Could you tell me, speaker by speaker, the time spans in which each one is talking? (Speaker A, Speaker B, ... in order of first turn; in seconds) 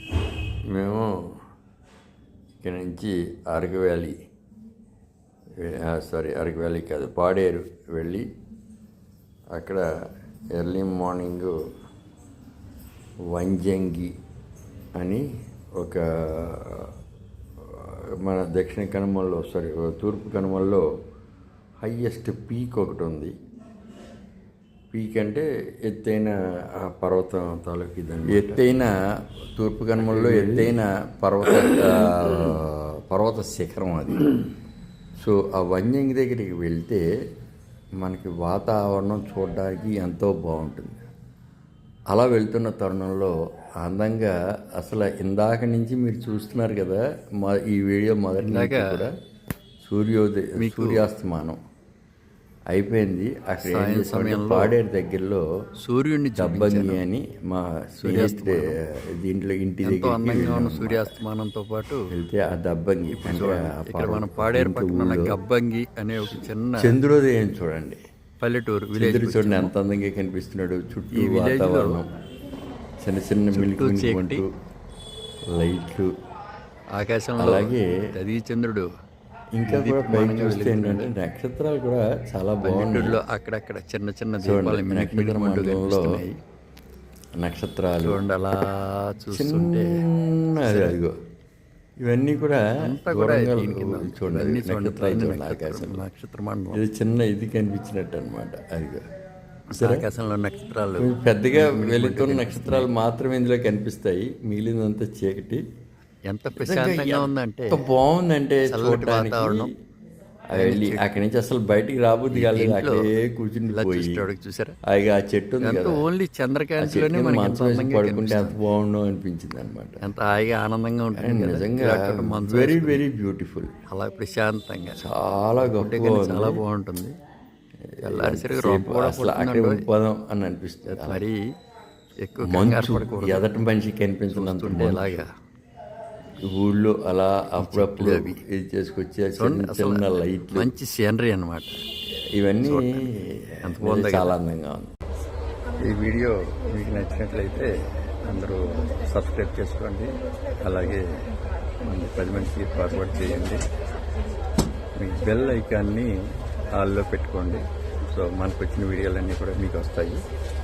Speaker A: 0.7-1.3, 2.6-4.2, 5.6-8.3, 9.5-9.9, 10.5-11.5, 13.3-14.1, 15.0-16.9, 17.6-20.9, 21.8-23.4, 24.9-28.9, 29.6-34.3, 35.2-37.0, 38.0-41.0, 42.1-49.1, 49.9-51.6, 52.7-55.4, 56.4-61.2, 62.1-65.4, 66.2-68.0, 69.0-72.1, 73.0-74.5, 75.5-76.1, 77.4-77.9, 79.6-83.2, 84.4-86.2, 87.4-88.2, 89.3-91.1, 92.0-96.0, 96.7-99.1, 99.8-100.0, 101.0-105.6, 106.5-109.7, 110.5-114.2, 114.9-116.0, 116.8-120.0, 121.1-123.7, 125.0-126.6, 127.9-131.2, 132.4-135.3, 136.5-140.7, 142.3-144.9
Speaker B: 30.0-30.8, 48.4-49.0, 50.6-51.1, 53.6-54.8, 55.8-57.0, 58.0-58.8, 59.8-62.1, 63.1-66.9, 68.4-69.7, 71.1-72.0, 73.5-74.4, 76.9-78.9, 79.7-81.1, 82.6-86.4, 88.0-90.0, 90.7-91.0, 92.8-96.8, 99.7-102.9, 106.3-107.8, 108.7-109.7, 110.5-111.2, 112.3-113.1, 113.7-114.8, 115.6-118.6, 120.0-123.0, 123.9-125.0, 125.6-127.2, 128.0-129.8, 130.9-131.4, 132.2-133.4, 134.3-135.3, 137.6-138.4, 139.4-141.8, 142.6-143.1, 143.7-144.3, 145.8-151.1, 151.8-153.7, 155.0-156.1, 156.8-160.2